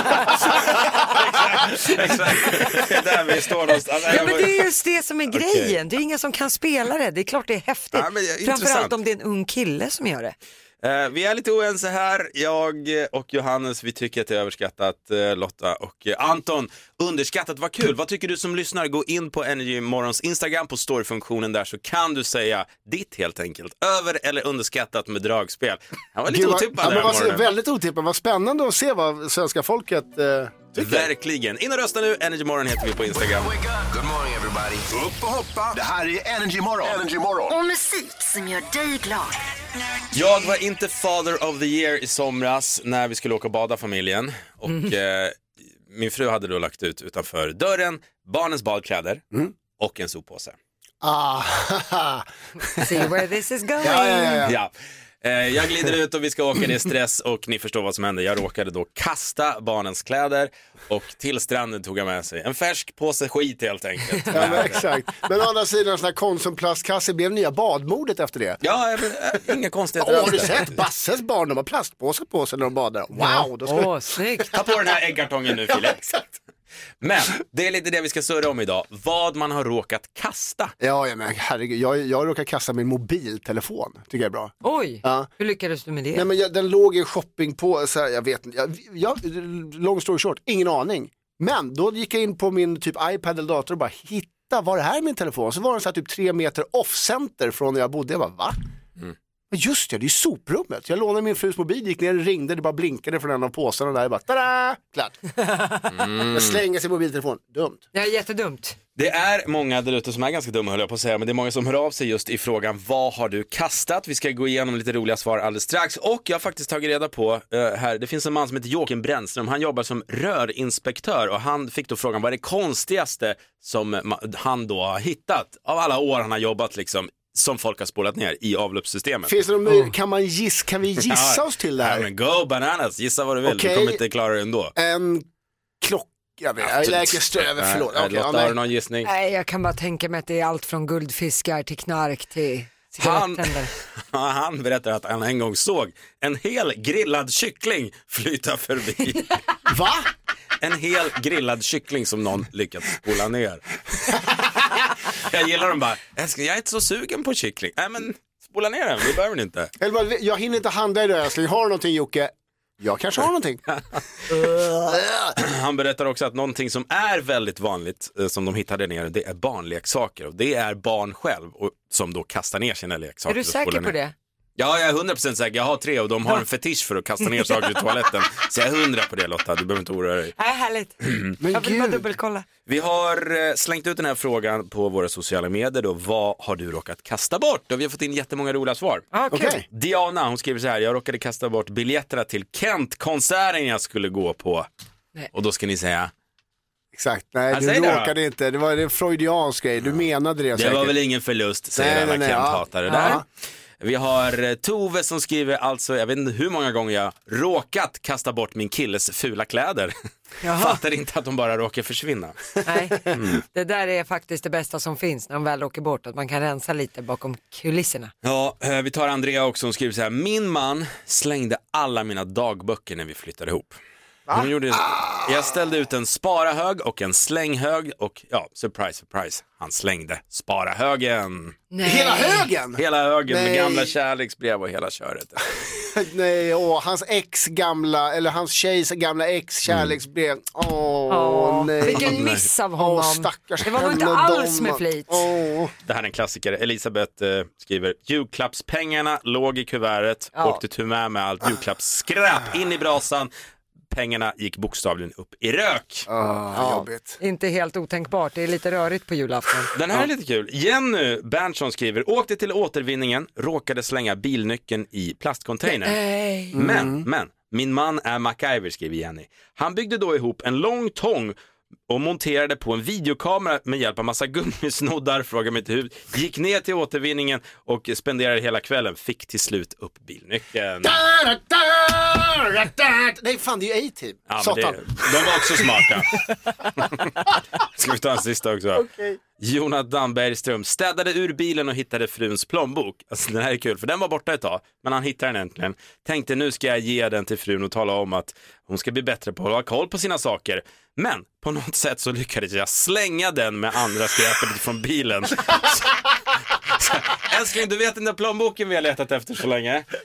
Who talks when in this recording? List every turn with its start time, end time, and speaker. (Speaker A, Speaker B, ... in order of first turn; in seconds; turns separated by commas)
Speaker A: 0.3-4.6, Speaker B: 0.4-0.9, Speaker C: 4.0-10.3, Speaker A: 5.3-5.8, Speaker A: 7.9-8.9, Speaker A: 10.8-27.4, Speaker B: 26.3-31.1, Speaker A: 30.8-33.5, Speaker D: 33.1-37.6, Speaker E: 37.5-39.5, Speaker A: 40.1-49.2, Speaker A: 49.8-50.5, Speaker B: 51.0-52.2, Speaker C: 52.7-54.5, Speaker B: 53.8-54.6, Speaker A: 54.4-54.7, Speaker A: 55.2-64.8, Speaker B: 64.3-68.6, Speaker A: 68.6-70.8, Speaker B: 70.0-74.0, Speaker C: 73.2-74.6, Speaker A: 74.5-76.0, Speaker B: 75.7-76.3, Speaker A: 77.0-80.7, Speaker B: 80.8-85.3, Speaker C: 84.6-86.3, Speaker B: 86.1-98.6, Speaker B: 99.5-105.2, Speaker A: 105.9-106.6, Speaker B: 106.2-107.8, Speaker C: 107.9-108.8, Speaker A: 109.0-129.3, Speaker B: 129.3-132.1, Speaker A: 131.0-134.7, Speaker B: 133.4-134.0, Speaker B: 134.8-135.3, Speaker B: 135.8-138.6, Speaker A: 136.6-139.1, Speaker C: 139.0-143.7, Speaker A: 143.0-149.3, Speaker B: 149.7-150.1, Speaker A: 150.6-159.7, Speaker B: 159.8-163.6, Speaker B: 164.3-165.4, Speaker A: 165.4-173.9, Speaker C: 173.3-174.1, Speaker A: 174.6-180.3, Speaker C: 177.4-177.7, Speaker C: 180.4-182.4, Speaker B: 181.4-182.0, Speaker A: 182.7-189.1, Speaker C: 189.1-189.6, Speaker B: 189.3-189.6, Speaker A: 189.7-194.7, Speaker A: 195.3-196.1, Speaker B: 196.9-200.9, Speaker A: 197.5-198.1, Speaker A: 200.5-203.2, Speaker B: 201.7-203.2, Speaker C: 202.9-203.2, Speaker A: 203.8-209.9, Speaker C: 210.4-210.8, Speaker A: 210.5-212.6, Speaker C: 212.6-218.1, Speaker A: 213.1-213.4, Speaker A: 218.2-223.8, Speaker B: 224.3-225.3, Speaker A: 224.3-231.6, Speaker C: 231.7-232.5, Speaker B: 231.8-233.9, Speaker A: 232.8-235.5, Speaker B: 235.9-245.7, Speaker C: 241.1-245.2, Speaker A: 241.9-242.4, Speaker A: 245.8-253.3, Speaker C: 250.3-250.6, Speaker A: 253.9-256.1, Speaker B: 256.1-257.2, Speaker C: 256.6-259.7, Speaker A: 259.7-266.0, Speaker C: 265.6-266.6, Speaker A: 266.5-271.3, Speaker B: 266.5-267.1, Speaker A: 271.9-281.0, Speaker B: 280.8-285.9, Speaker A: 284.3-286.2, Speaker A: 286.8-288.9, Speaker B: 288.7-289.2, Speaker A: 289.4-306.0, Speaker A: 306.8-309.9